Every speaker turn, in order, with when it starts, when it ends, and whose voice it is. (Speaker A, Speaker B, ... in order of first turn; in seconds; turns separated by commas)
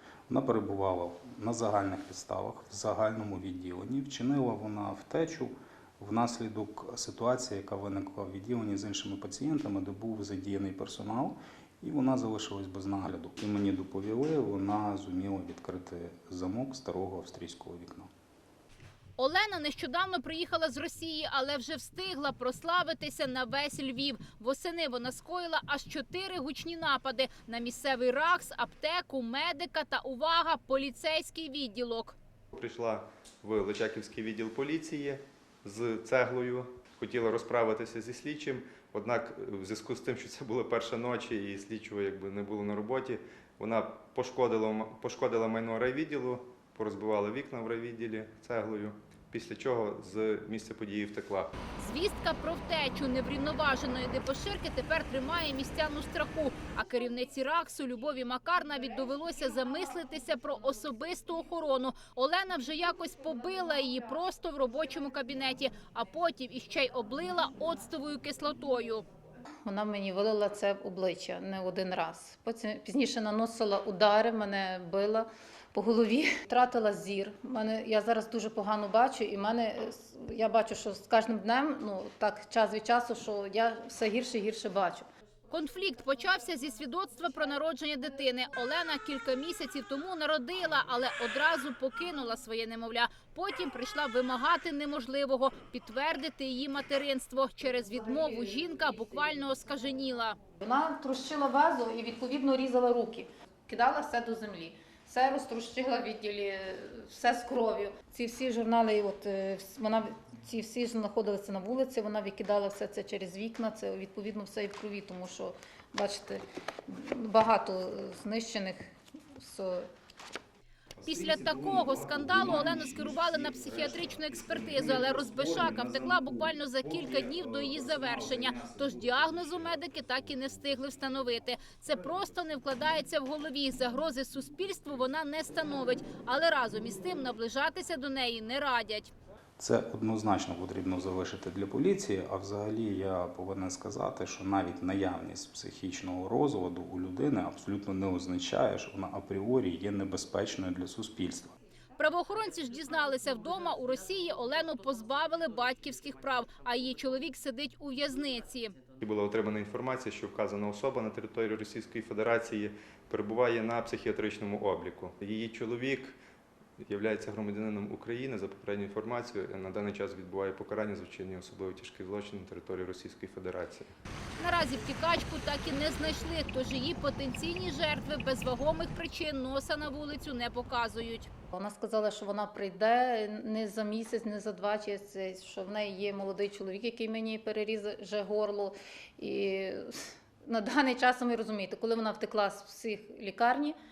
Speaker A: 0.3-18.1, Speaker B: 19.2-32.1, Speaker C: 32.5-51.5, Speaker B: 51.8-69.0, Speaker D: 69.6-85.1, Speaker B: 85.5-100.4, Speaker D: 100.6-119.9, Speaker B: 121.0-139.1, Speaker A: 139.6-151.5, Speaker B: 152.0-158.8, Speaker C: 159.0-166.2, Speaker C: 166.8-173.9, Speaker B: 174.4-181.3, Speaker D: 181.5-193.8